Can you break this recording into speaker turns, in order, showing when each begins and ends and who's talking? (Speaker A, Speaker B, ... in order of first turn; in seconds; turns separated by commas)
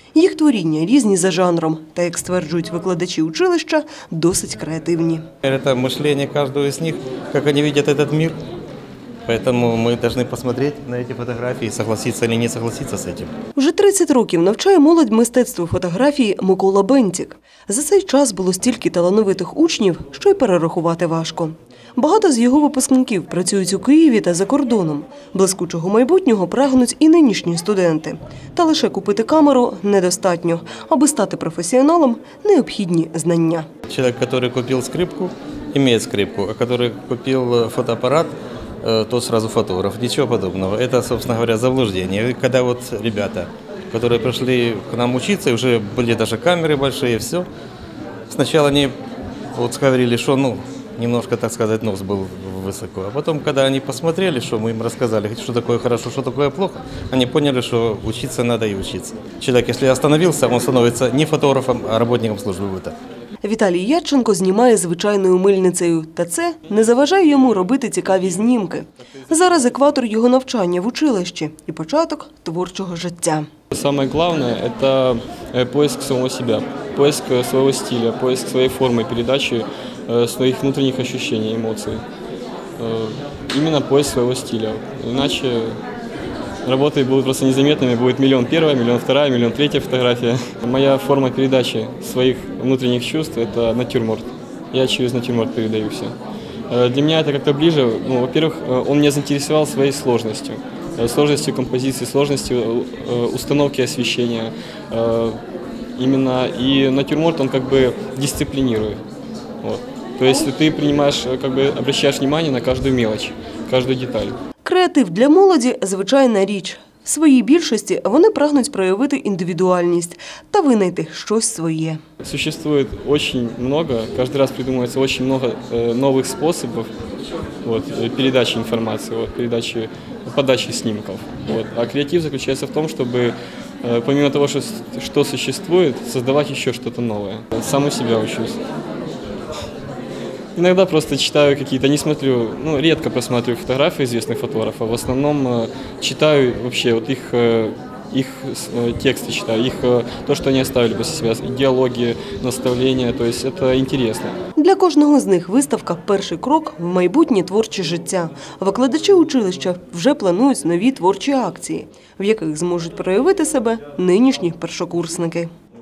Speaker A: 0.1-5.2, Speaker B: 5.4-8.4, Speaker B: 9.2-13.3, Speaker A: 13.6-33.7, Speaker B: 33.9-47.5, Speaker B: 48.3-49.0, Speaker B: 49.5-63.0, Speaker A: 63.4-73.5, Speaker C: 73.7-82.0, Speaker C: 82.8-85.8, Speaker C: 86.6-96.2, Speaker C: 96.7-105.4, Speaker C: 106.0-109.0, Speaker C: 109.6-114.3, Speaker A: 114.6-122.0, Speaker C: 122.2-126.9, Speaker C: 127.6-138.6, Speaker C: 140.6-154.4, Speaker A: 154.6-165.5